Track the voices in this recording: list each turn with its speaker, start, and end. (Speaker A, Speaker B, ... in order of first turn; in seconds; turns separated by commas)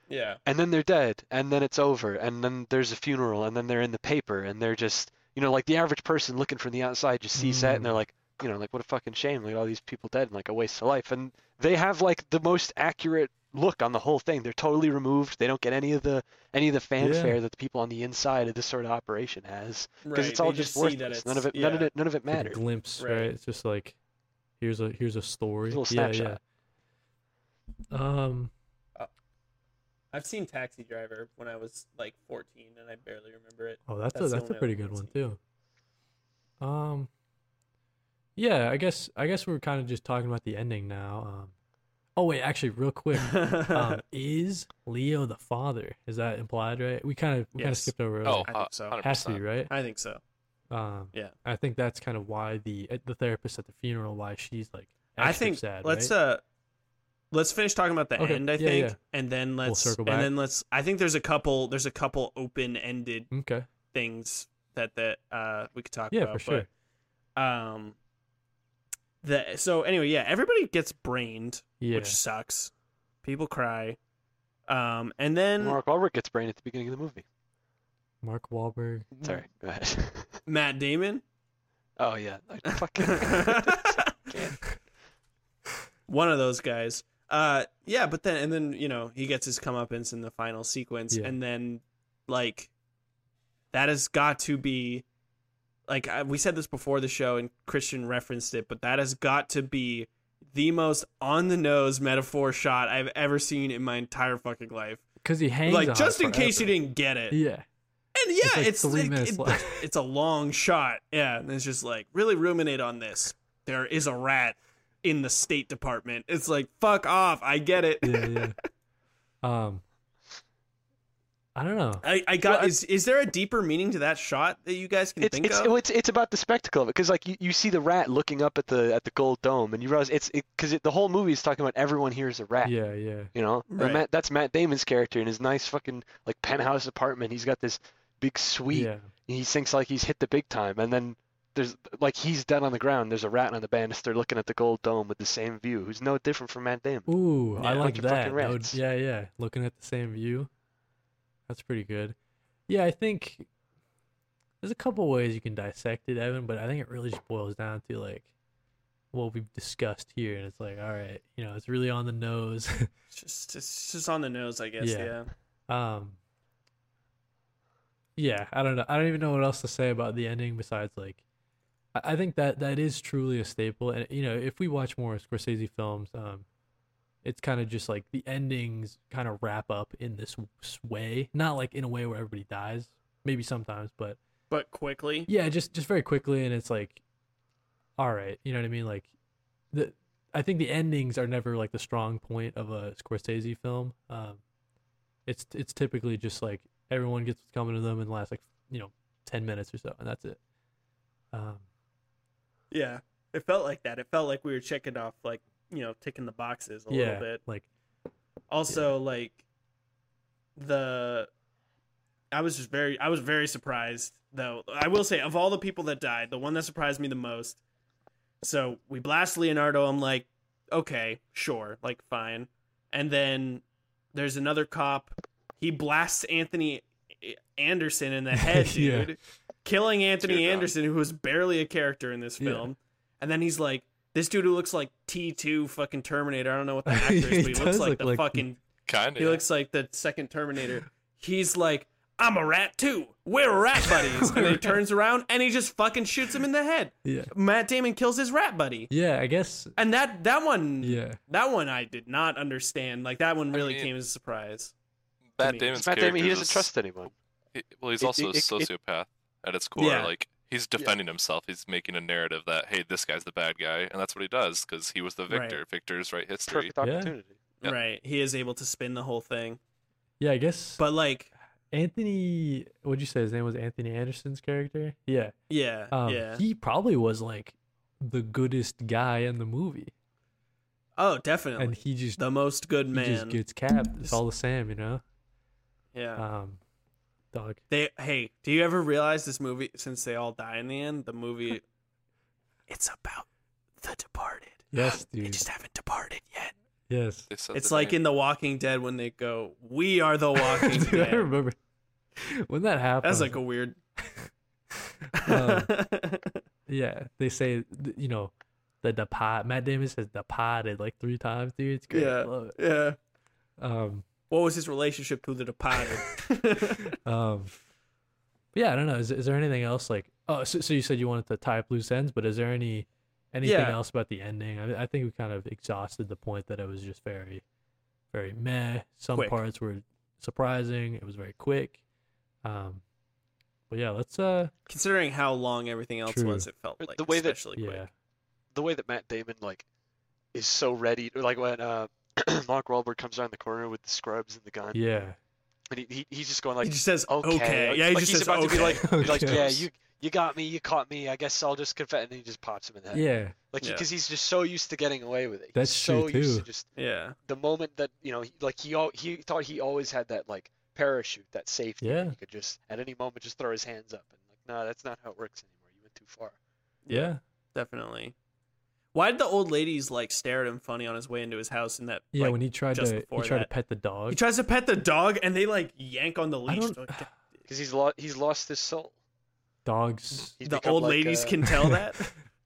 Speaker A: 0.1-0.4, Speaker B: 0.5-22.6, Speaker C: 7.4-8.0, Speaker C: 17.0-17.4, Speaker A: 20.0-21.9, Speaker C: 22.3-24.0, Speaker A: 23.0-23.3, Speaker C: 24.6-26.4, Speaker B: 25.7-26.4, Speaker C: 27.9-28.5, Speaker A: 30.1-35.2, Speaker C: 33.9-35.4, Speaker C: 36.6-37.1, Speaker C: 38.4-41.5, Speaker C: 42.2-49.7, Speaker A: 43.2-44.0, Speaker A: 47.6-49.0, Speaker D: 48.2-49.4, Speaker A: 49.7-50.2, Speaker C: 50.7-56.1, Speaker A: 55.2-56.4, Speaker A: 57.3-63.3, Speaker C: 58.2-59.0, Speaker C: 59.6-60.3, Speaker C: 63.3-63.7, Speaker A: 63.9-66.7, Speaker C: 66.1-66.7, Speaker A: 67.4-68.0, Speaker A: 69.2-72.7, Speaker C: 71.8-72.2, Speaker A: 73.2-74.0, Speaker A: 74.7-75.8, Speaker B: 75.6-77.2, Speaker C: 78.2-79.1, Speaker B: 79.2-80.4, Speaker A: 80.5-81.2, Speaker B: 82.0-84.8, Speaker A: 83.0-84.1, Speaker A: 86.1-92.7, Speaker A: 93.7-95.0, Speaker A: 95.9-105.0, Speaker C: 105.2-106.8, Speaker A: 105.7-107.4, Speaker C: 107.3-107.7, Speaker A: 108.2-118.5, Speaker C: 108.4-109.9, Speaker C: 118.0-118.6, Speaker C: 119.4-119.8, Speaker C: 121.5-122.7, Speaker A: 122.0-125.7, Speaker B: 125.2-132.8, Speaker C: 132.6-133.3, Speaker B: 133.3-148.8, Speaker A: 133.7-134.0, Speaker C: 138.7-139.1, Speaker C: 147.1-150.5, Speaker C: 151.5-152.2, Speaker C: 152.7-153.5, Speaker C: 154.6-158.3, Speaker C: 159.1-162.9, Speaker A: 163.1-165.3, Speaker C: 164.8-165.2, Speaker C: 165.7-166.2, Speaker C: 168.2-171.2, Speaker C: 171.9-176.4, Speaker C: 177.2-184.2, Speaker A: 184.5-185.3, Speaker C: 185.3-187.0, Speaker C: 188.0-189.1, Speaker C: 189.7-194.4, Speaker C: 195.3-200.4, Speaker C: 201.3-201.7, Speaker A: 202.7-207.4, Speaker C: 206.9-207.7, Speaker A: 208.5-209.4, Speaker A: 210.6-211.3, Speaker A: 212.3-217.6, Speaker A: 218.4-223.6, Speaker A: 224.1-238.6, Speaker C: 228.4-229.1, Speaker D: 230.2-230.7, Speaker C: 232.4-232.7, Speaker C: 236.9-238.5, Speaker D: 238.9-239.4, Speaker A: 239.2-248.9, Speaker C: 243.8-244.8, Speaker C: 247.0-247.3, Speaker C: 248.9-249.8, Speaker A: 249.8-254.7, Speaker C: 250.8-251.2, Speaker D: 253.5-253.9, Speaker D: 255.4-256.7, Speaker A: 255.4-255.8, Speaker B: 255.7-257.1, Speaker D: 257.5-266.7, Speaker B: 258.0-258.7, Speaker A: 259.8-260.1, Speaker A: 265.3-265.6, Speaker B: 266.5-267.4, Speaker C: 266.8-267.1, Speaker A: 267.6-269.6, Speaker C: 270.2-270.8, Speaker A: 270.8-271.3, Speaker C: 271.7-275.3, Speaker A: 275.5-276.4, Speaker C: 275.9-279.9, Speaker A: 281.0-283.4, Speaker C: 281.6-282.2, Speaker C: 282.9-285.0, Speaker A: 285.9-286.2, Speaker C: 286.2-286.6, Speaker C: 287.3-287.6, Speaker A: 287.7-291.6, Speaker A: 292.7-293.3, Speaker A: 293.8-296.5, Speaker C: 294.7-295.5, Speaker C: 296.9-297.3, Speaker D: 297.3-298.0, Speaker A: 297.5-301.3, Speaker C: 300.4-301.6, Speaker C: 302.2-303.4, Speaker A: 303.0-303.8, Speaker C: 304.0-305.7, Speaker A: 305.1-306.4, Speaker C: 306.7-312.6, Speaker A: 311.9-313.0, Speaker C: 313.6-314.1, Speaker A: 314.3-316.9, Speaker C: 316.9-317.5, Speaker C: 318.5-327.4, Speaker A: 323.4-323.8, Speaker C: 328.1-331.8, Speaker A: 329.1-329.4, Speaker C: 332.4-332.8, Speaker C: 333.7-334.5, Speaker A: 334.7-337.9, Speaker C: 336.1-336.5, Speaker B: 336.8-337.4, Speaker C: 337.6-337.9, Speaker B: 338.5-339.7, Speaker B: 340.3-344.8, Speaker C: 344.7-345.2, Speaker B: 345.7-356.7, Speaker A: 346.6-349.5, Speaker C: 348.8-349.4, Speaker D: 349.2-349.6, Speaker C: 352.9-353.4, Speaker C: 355.6-356.5, Speaker A: 356.8-357.2, Speaker B: 357.2-366.4, Speaker C: 361.8-362.2, Speaker A: 366.9-368.1, Speaker C: 366.9-367.2, Speaker A: 368.9-373.5, Speaker C: 372.1-374.2, Speaker A: 374.1-377.1, Speaker C: 376.5-377.1, Speaker B: 377.5-378.9, Speaker C: 379.6-380.4, Speaker B: 380.4-381.4, Speaker A: 380.4-382.2, Speaker C: 381.5-382.0